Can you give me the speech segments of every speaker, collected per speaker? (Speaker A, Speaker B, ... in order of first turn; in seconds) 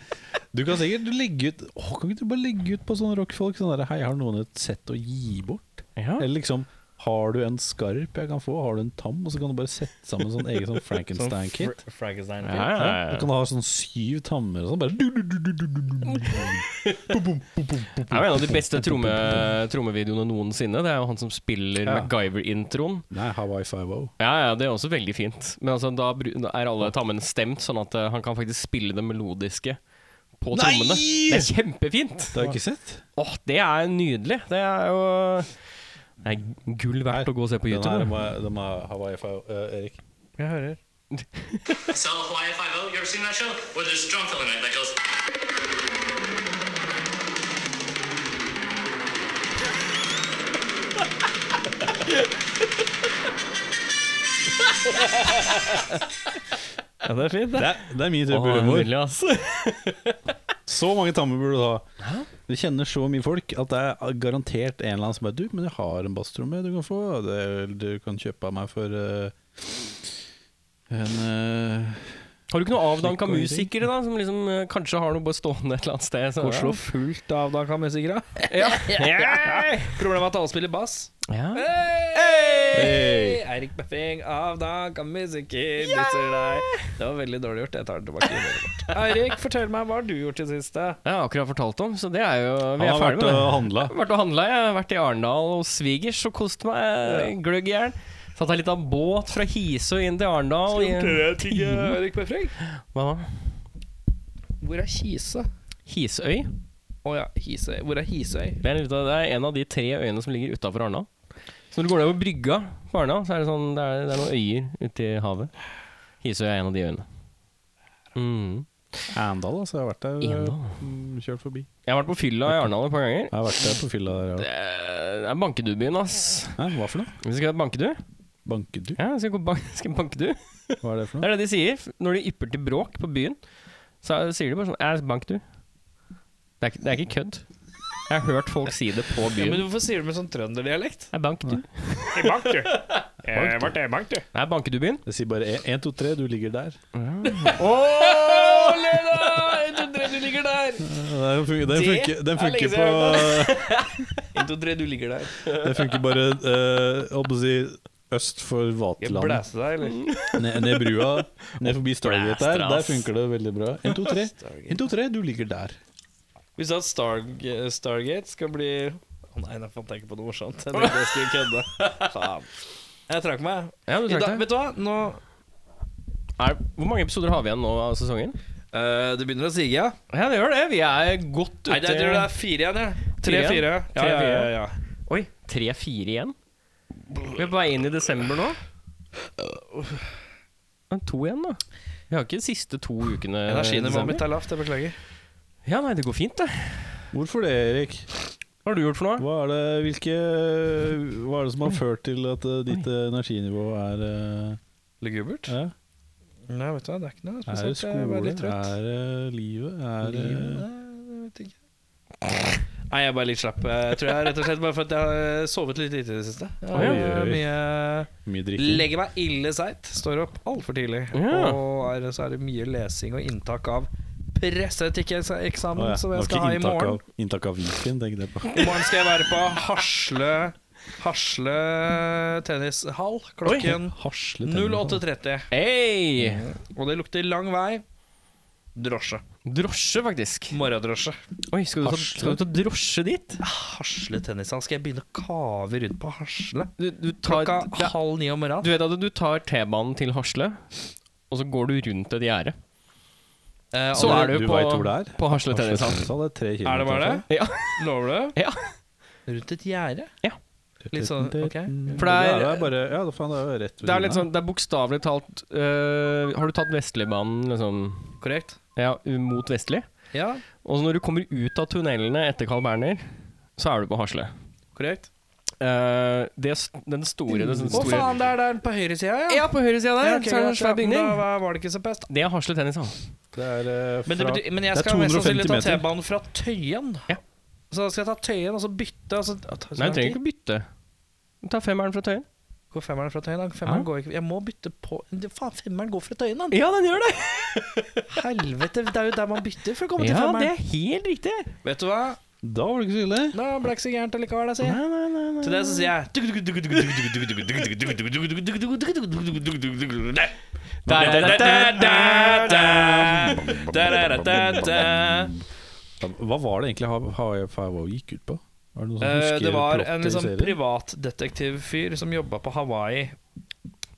Speaker A: 0.5-11.8, 12.7-19.6, 21.8-22.1, 23.1-24.1, 30.5-31.6, 32.3-33.0, 37.1-40.0, 57.5-58.9, 60.7-61.9, 62.5-70.1, 70.9-72.2, 72.8-73.7, 82.7-83.4, 92.8-94.0, 119.1-121.7, 122.5-122.8, 123.3-124.5, 126.6-127.2, 128.5-129.0, 130.8-131.3, 143.3-143.8, 145.1-146.8, 150.8-153.8, 155.5-159.4, 160.4-165.8, 197.1-198.1, 199.2-204.6, 205.5-205.7, 207.5-210.7, 216.7-217.6, 218.2-218.9, 225.8-228.8, 233.5-235.0, 241.8-242.4, 253.9-257.2, 260.9-264.3, 277.3-278.2, 283.3-285.9, 302.4-303.4, 310.9-315.4, 316.0-320.6
Speaker B: 6.0-6.3, 12.4-13.3, 16.1-17.2, 18.1-23.1, 24.2-29.8, 30.4-32.6, 33.2-35.5, 36.2-38.2, 41.2-41.9, 58.3-60.3, 62.0-62.3, 72.5-76.8, 78.5-80.0, 81.3-82.9, 91.0-101.9, 102.6-103.4, 105.9-106.5, 108.6-111.1, 111.7-115.5, 116.2-117.1, 118.2-119.1, 120.2-120.8, 121.9-123.7, 124.4-126.6, 127.2-128.0, 129.0-133.4, 134.0-135.4, 136.6-137.4, 138.1-139.7, 141.1-142.4, 144.3-145.0, 146.9-149.6, 153.7-154.1, 159.9-163.1, 171.8-172.1, 173.9-174.4, 176.4-178.4, 180.1-182.3, 183.2-184.5, 185.1-186.4, 187.3-188.6, 190.9-194.2, 195.7-197.0, 198.7-199.3, 216.7-217.0, 221.1-221.6, 235.5-236.5, 239.5-240.6, 241.5-243.4, 246.8-247.9, 248.6-250.6, 251.3-252.6, 253.9-256.1, 257.3-257.8, 258.3-258.6, 262.0-262.6, 263.8-268.2, 268.8-269.9, 270.6-273.1, 273.6-274.3, 275.6-278.1, 279.3-281.2, 282.1-283.0, 289.8-290.7, 291.4-292.3, 296.5-298.1, 300.0-301.5, 304.6-305.9, 310.9-312.9
Speaker C: 11.2-12.7, 40.4-40.8, 57.0-57.8, 76.4-91.0, 97.1-97.3, 100.7-102.5, 104.6-105.5, 107.0-108.6, 139.3-141.1, 142.1-144.3, 147.3-150.9, 151.7-153.6, 154.3-155.5, 159.0-160.1, 164.1-164.8, 166.6-172.5, 173.1-175.2, 178.7-180.0, 181.7-184.8, 193.5-195.0, 205.0-205.6, 206.5-208.8, 210.0-211.5, 212.9-227.0, 228.5-235.5, 236.2-237.8, 238.8-239.2, 240.5-241.2, 243.4-246.7, 247.2-248.7, 253.7-254.4, 256.6-258.4, 259.3-260.1, 260.9-262.3, 268.2-268.6, 270.1-270.4, 274.8-275.1, 277.7-282.1, 284.1-287.1, 287.7-290.2, 292.7-296.6, 298.1-300.5, 301.6-302.2, 303.3-304.8, 305.4-310.4, 310.9-315.3, 319.0-323.2
Speaker D: 41.9-45.0